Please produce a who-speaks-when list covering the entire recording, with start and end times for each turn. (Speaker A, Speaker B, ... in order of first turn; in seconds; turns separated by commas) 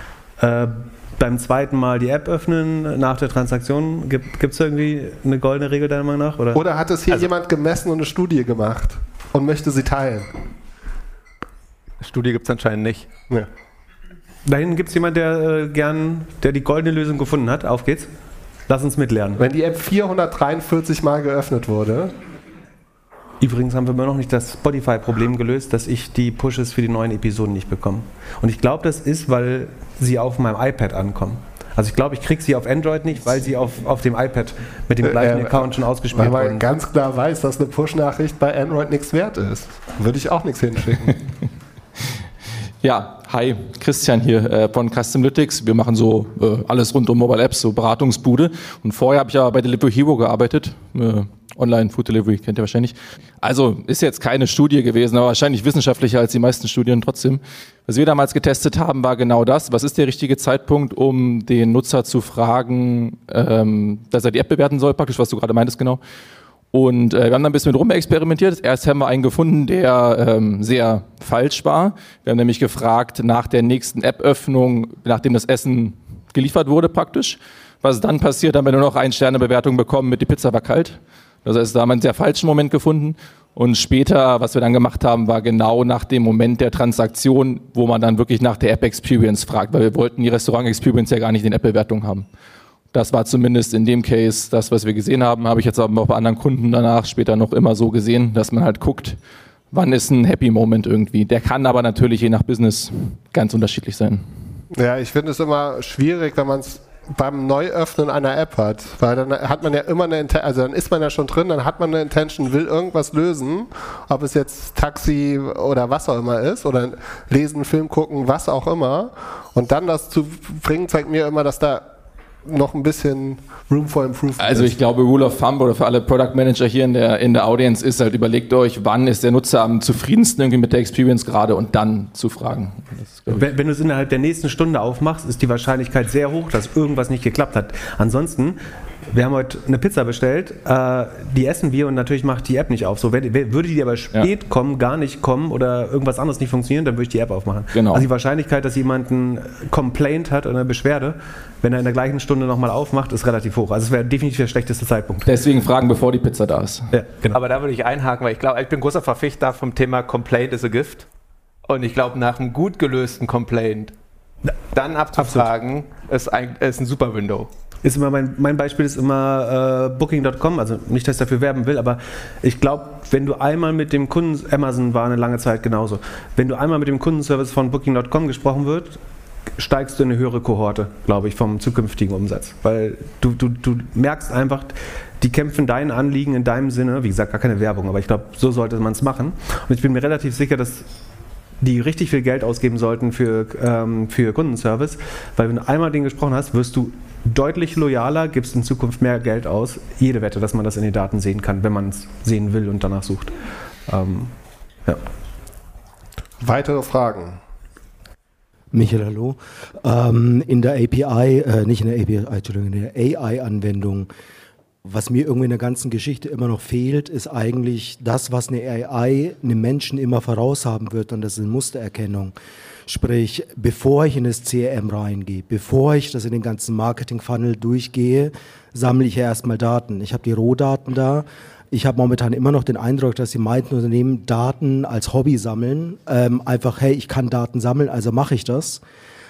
Speaker A: 0.4-6.6, Speaker B: 6.5-10.4, Speaker C: 12.0-13.1, Speaker A: 14.5-18.1, Speaker A: 18.7-19.4, Speaker B: 19.4-22.2, Speaker A: 23.4-36.7, Speaker B: 35.0-41.2, Speaker D: 42.8-66.0, Speaker D: 66.7-92.3, Speaker D: 92.9-99.2, Speaker D: 99.7-104.3, Speaker B: 104.7-121.9, Speaker B: 122.5-124.8, Speaker D: 124.4-133.5, Speaker A: 133.3-155.4, Speaker D: 147.7-148.1, Speaker D: 155.3-156.9, Speaker A: 156.9-157.4, Speaker C: 157.3-161.1, Speaker C: 161.7-163.9, Speaker C: 164.7-167.5, Speaker A: 165.2-165.5, Speaker A: 167.8-179.0, Speaker A: 179.6-190.9, Speaker A: 191.6-204.3, Speaker B: 206.4-207.4, Speaker E: 208.7-214.1, Speaker E: 214.8-222.3, Speaker E: 222.9-238.8